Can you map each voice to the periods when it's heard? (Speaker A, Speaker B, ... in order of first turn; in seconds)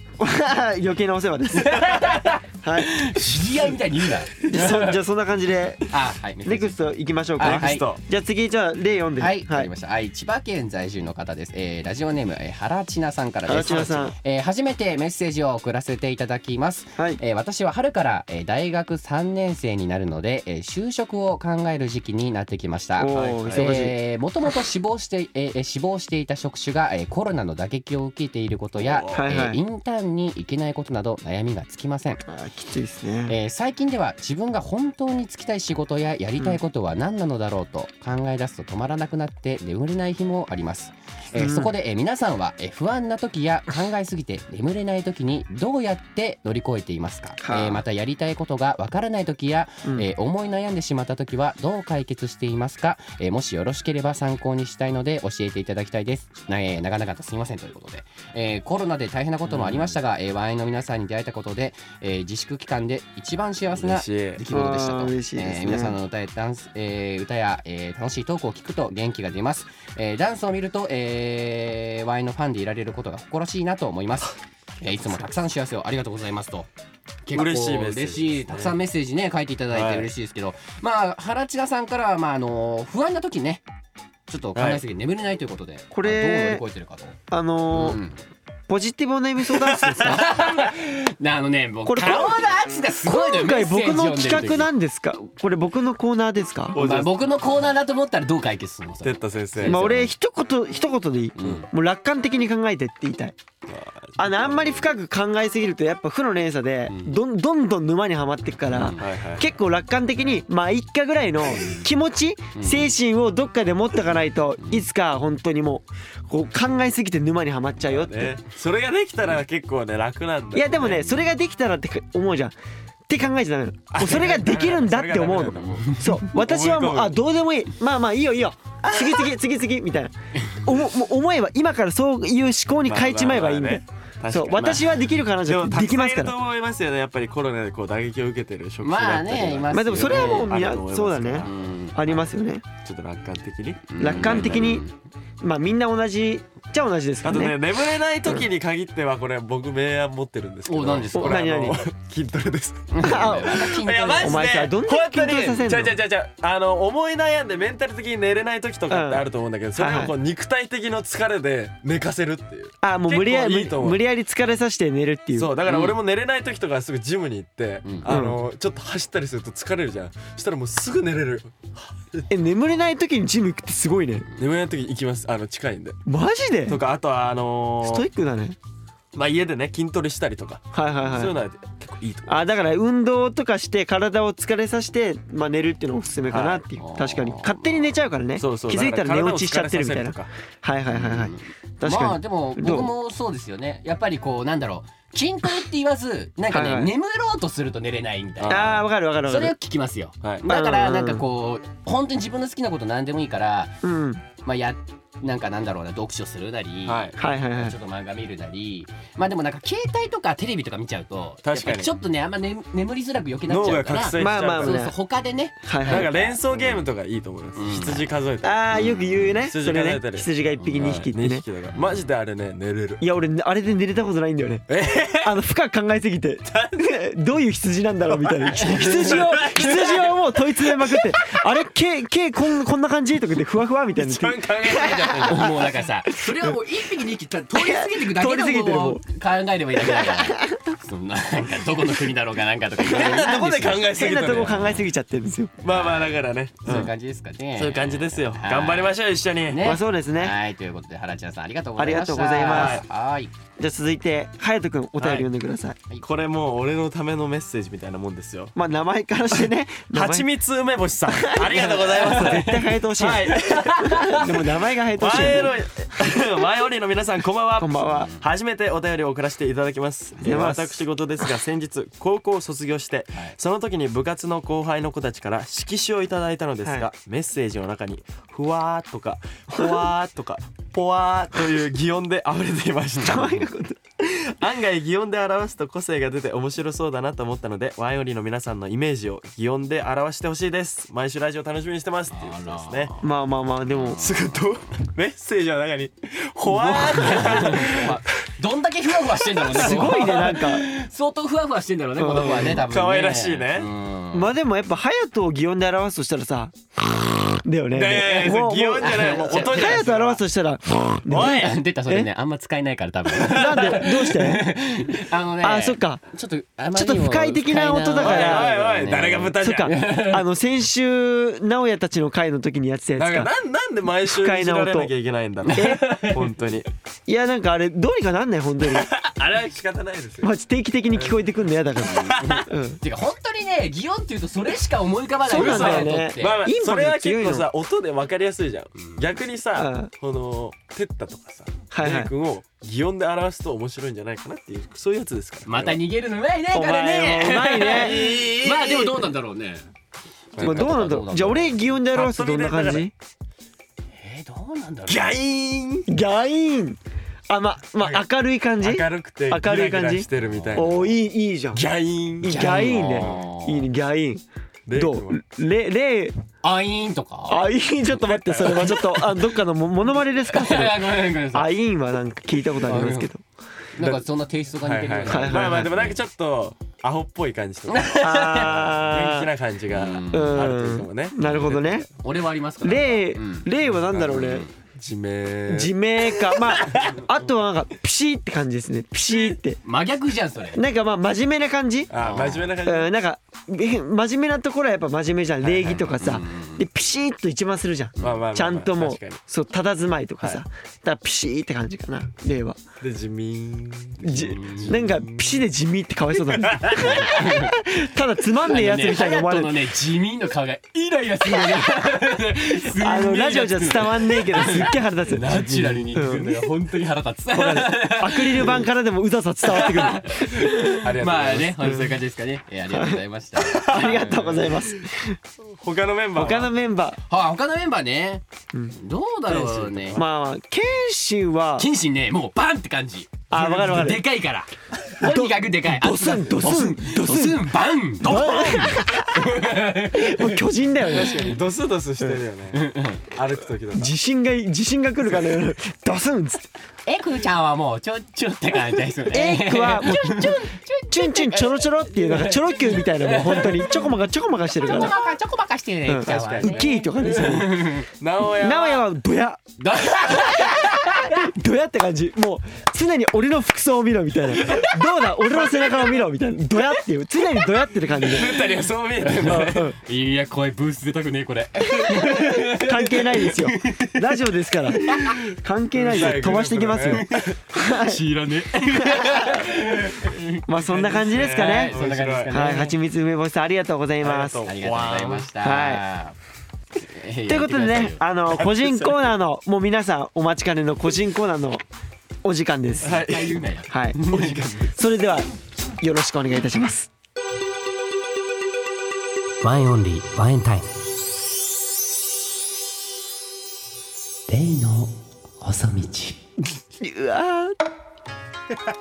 Speaker A: 0.2-2.0, 2.6-3.0, 4.4-5.9, 6.4-9.7, 13.4-14.1, 23.0-23.9, 29.1-29.6, 32.3-33.3, 41.3-41.7, 47.4-47.8, 64.5-66.0, 85.9-86.6, 87.3-88.0, 88.7-90.4, 91.8-92.4, 93.0-96.8, 99.6-103.3, 104.2-118.4, 120.5-122.5, 123.1-136.4, 139.7-142.6, 144.0-144.8, 145.4-147.6, 151.1-151.8, 153.0-156.0, 158.9-160.1, 162.8-165.6, 168.1-168.4, 172.3-174.3, 176.1-176.8, 177.8-178.6, 180.7-181.4, 182.3-192.9, 196.5-196.9, 198.5-199.5, 200.5-201.2, 203.8-204.2, 207.2-207.8, 214.2-214.9, 215.6-216.1, 218.4-221.4, 223.0-224.6, 225.2-235.5, 236.1-236.5, 237.5-239.0, 239.8-240.6, 243.8-245.5, 249.6-250.3, 251.8-252.8, 253.6-255.8, 258.5-260.3, 261.1-265.5, 267.6-268.1, 270.2-270.8, 279.5-279.9, 283.0-283.8, 293.0-294.1, 299.5-300.7, 302.0-302.6, 304.1-312.1, 313.2-314.5, 315.4-316.0, 316.7-318.5, 319.4-323.3, 324.0-324.9, 325.5-325.9, 327.1-328.9, 330.2-332.8, 335.2-337.5, 339.6-339.9, 341.7-342.1, 346.5-348.1, 350.4-352.9, 355.9-361.6, 362.2-364.2, 364.7-366.2, 367.3-373.2, 375.1-375.8, 378.0-379.3, 380.1-381.9, 382.6-384.5, 385.5-389.6, 390.5-391.9, 392.6-402.6, 404.0-409.6, 412.7-416.3, 417.3-420.2, 422.7-423.0, 423.6-425.2, 426.1-427.0, 428.5-428.8, 429.9-431.7, 433.3-434.0, 435.0-437.5, 438.0-439.4, 439.9-441.4, 443.7-446.5, 449.1-454.9, 455.9-457.7, 458.4-459.5, 460.1-468.3, 469.2-469.8, 472.0-478.0, 478.8-479.3, 480.4-481.8, 482.3-484.4, 485.4-485.8, 487.3-491.6, 492.2-493.0, 493.7-494.0, 494.7-495.3, 495.8-496.9, 506.8-507.6
Speaker B: 1.6-5.0, 5.9-6.8, 7.4-7.9, 9.2-32.2, 33.3-76.7, 77.2-83.6, 84.3-87.2, 87.7-88.2, 90.0-94.7, 96.7-100.0, 101.4-101.7, 106.9-107.2, 108.7-109.1, 112.6-112.9, 125.6-126.0, 138.8-140.6, 141.4-142.2, 143.9-144.9, 150.7-151.5, 152.9-154.5, 165.7-166.0, 167.8-168.1, 186.8-187.9, 190.9-203.8, 204.4-216.8, 217.6-218.1, 218.8-219.2, 220.6-221.0, 228.8-229.2, 235.2-243.9, 245.7-248.9, 249.5-253.3, 262.2-262.5, 263.4-264.1, 267.9-268.2, 292.1-293.0, 293.8-294.2, 296.5-304.3, 308.8-309.8, 311.2-320.2, 325.4-326.3, 332.1-336.4, 338.8-339.0, 345.5-349.6, 350.3-351.6, 354.0-355.2, 360.3-360.6, 362.3-363.7, 366.4-367.5, 370.3-371.5, 372.6-373.1, 373.7-376.0, 377.7-378.7, 379.7-380.5, 382.0-383.5, 384.1-384.5, 389.6-390.6, 392.0-392.5, 395.9-396.6, 404.1-404.9, 406.7-407.6, 408.4-418.6, 419.5-424.5, 427.1-428.2, 428.8-430.0, 431.6-440.4, 442.5-443.0, 446.9-453.9, 454.6-457.9, 459.6-461.2, 469.0-474.0, 474.8-475.2, 477.8-480.4, 481.2-482.8, 484.4-486.1, 486.8-488.0, 492.9-494.5, 499.4-500.7, 504.3-506.2
Speaker C: 3.2-3.5, 7.4-8.0, 13.5-14.0, 23.1-23.9, 28.8-29.3, 63.7-64.4, 77.3-78.8, 79.7-80.1, 84.5-84.8, 89.5-90.3, 96.7-97.3, 99.0-100.1, 103.7-104.9, 108.8-109.5, 117.8-121.2, 123.9-127.2, 132.8-141.6, 142.8-144.7, 147.2-164.0, 165.3-172.2, 174.3-176.0, 176.7-178.1, 179.1-182.4, 186.3-186.6, 188.4-190.3, 198.4-198.8, 206.8-207.2, 211.4-211.9, 213.5-214.9, 215.8-218.6, 219.4-223.0, 224.7-225.4, 226.5-226.9, 228.1-231.1, 233.9-235.8, 242.8-244.8, 245.6-246.9, 247.6-249.8, 252.4-252.8, 255.0-255.2, 256.0-258.5, 259.9-283.5, 284.0-292.9, 293.8-298.0, 299.5-299.9, 302.2-303.7, 307.7-310.2, 311.1-311.6, 313.2-313.6, 317.9-319.7, 323.0-326.7, 328.6-330.3, 330.9-331.2, 331.8-332.4, 335.3-345.8, 347.6-349.1, 350.3-350.8, 351.9-352.9, 354.9-355.9, 358.6-360.9, 361.5-363.2, 364.6-365.2, 368.1-368.8, 373.8-374.1, 374.6-381.9, 383.8-385.7, 386.7-386.9, 391.9-392.9, 395.4-396.0, 398.0-399.2, 402.8-405.4, 406.3-407.1, 415.3-416.3, 420.8-422.0, 423.4-424.3, 425.5-426.5, 429.3-430.0, 440.9-443.9, 456.0-458.8, 468.0-469.7, 475.7-477.4, 479.0-479.4, 480.6-482.4, 484.0-485.3, 488.3-489.1, 492.8-494.7